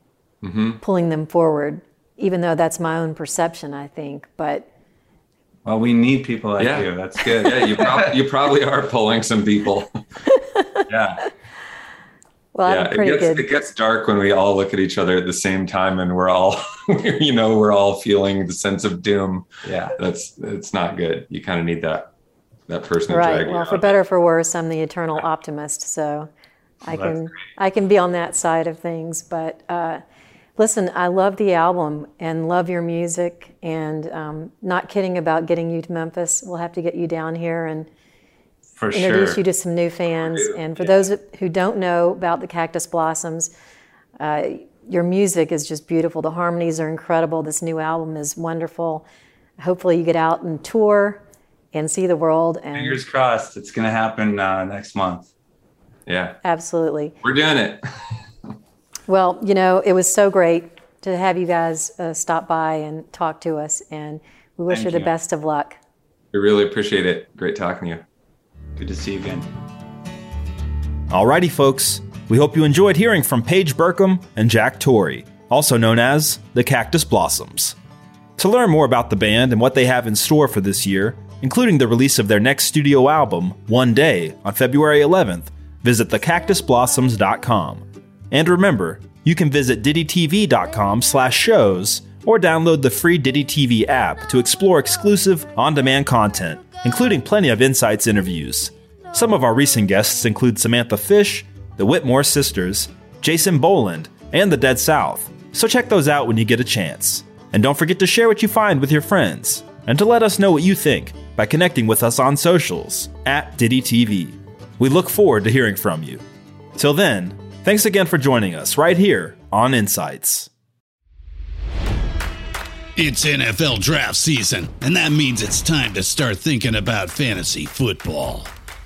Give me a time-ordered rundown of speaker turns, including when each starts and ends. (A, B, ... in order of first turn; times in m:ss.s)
0:00.4-0:00.8 A
0:00.8-0:04.7 B
0:05.6-0:08.1 C
0:06.6-0:10.0 A
0:10.4-0:10.8 B
0:10.9-0:11.2 A
0:12.5-0:13.4 B
0:12.6-0:22.1 A
0:19.6-0:20.0 C
0:22.7-0:24.0 A
0:23.1-0:26.3 B
0:26.8-0:30.0 B
0:26.9-0:27.3 C
0:30.6-0:37.9 B
0:38.8-0:39.4 C
0:38.9-0:43.5 B
0:44.2-0:49.0 B
0:49.6-0:51.2 B
0:51.7-0:53.0 B
0:52.7-0:55.3 C
0:56.0-0:56.4 A
0:56.4-0:57.1 B
0:57.2-0:57.8 A
0:59.1-1:05.8 B
1:04.7-1:05.1 C
1:06.3-1:08.0 A
1:08.8-1:09.5 C
1:11.1-1:17.7 D
1:18.4-1:56.2 D
1:56.8-2:00.5 D
2:03.0-2:08.5 E